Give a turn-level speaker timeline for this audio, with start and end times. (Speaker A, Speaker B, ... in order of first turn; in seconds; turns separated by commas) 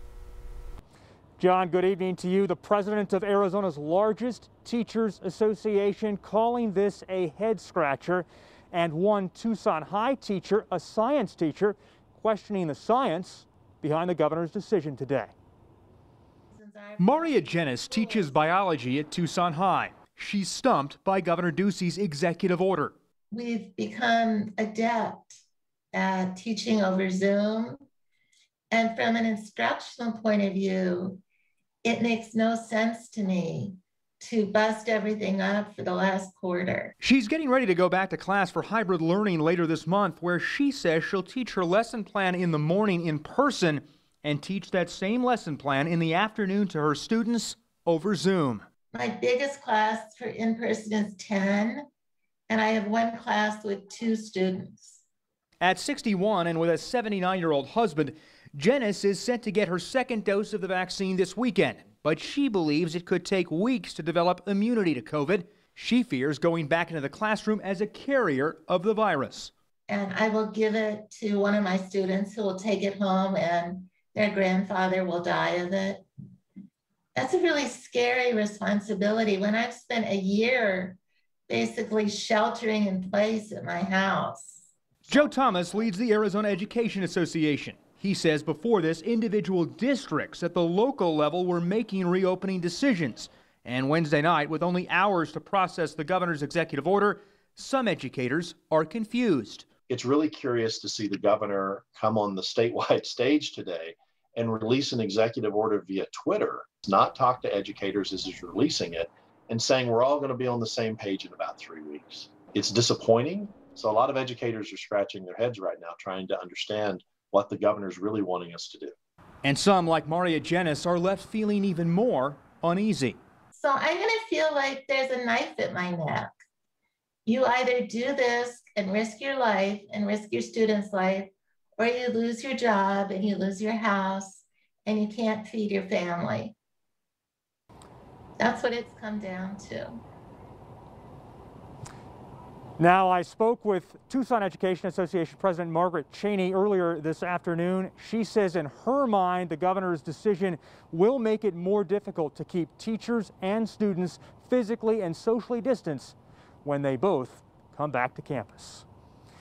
Speaker A: 1.4-15.3, Speaker B: 16.5-18.6, Speaker C: 17.0-22.9, Speaker B: 23.3-25.4, Speaker B: 25.9-27.8, Speaker B: 28.7-31.2, Speaker B: 31.8-36.9, Speaker C: 37.0-48.6, Speaker B: 48.9-51.9, Speaker B: 52.5-55.0, Speaker C: 55.6-69.5, Speaker B: 69.9-76.1, Speaker B: 77.2-84.6, Speaker C: 85.1-99.7, Speaker D: 99.9-118.9, Speaker C: 119.4-123.2, Speaker B: 123.5-126.3, Speaker B: 127.3-136.6, Speaker B: 138.4-140.0, Speaker A: 142.8-155.8, Speaker C: 149.9-156.1, Speaker C: 156.7-158.8, Speaker A: 157.9-158.5